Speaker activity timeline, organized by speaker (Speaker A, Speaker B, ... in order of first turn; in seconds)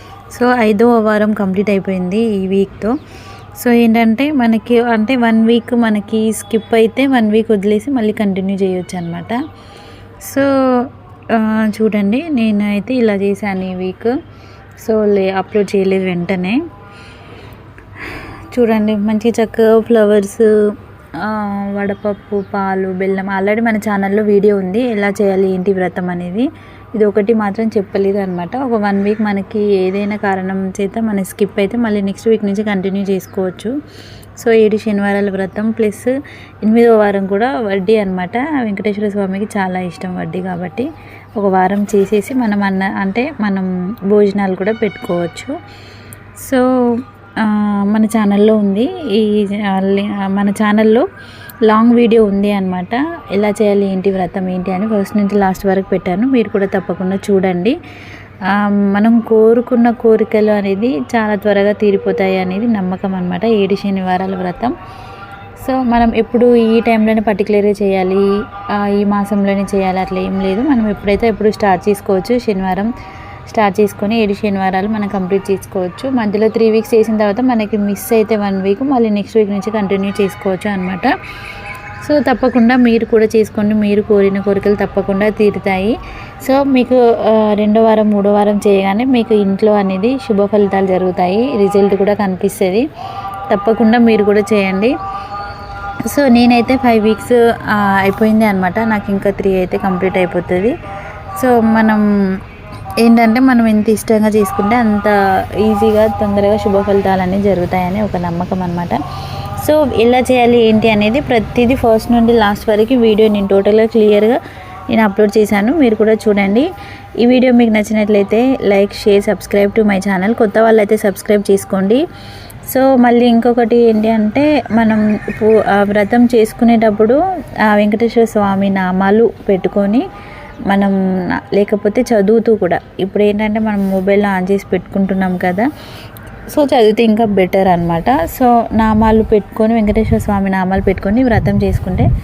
Speaker A: 0.3-3.0, 3.6-9.4, 10.2-14.1, 14.8-16.6, 18.5-33.7, 34.4-45.5, 46.4-51.1, 51.7-57.8, 58.5-64.7, 65.6-72.9, 73.5-81.1, 82.0-92.9, 93.5-95.0, 96.1-100.8, 101.4-102.1, 103.0-109.0, 109.6-114.4, 114.9-116.7, 117.2-122.0, 122.7-130.1, 130.7-135.7, 136.5-142.1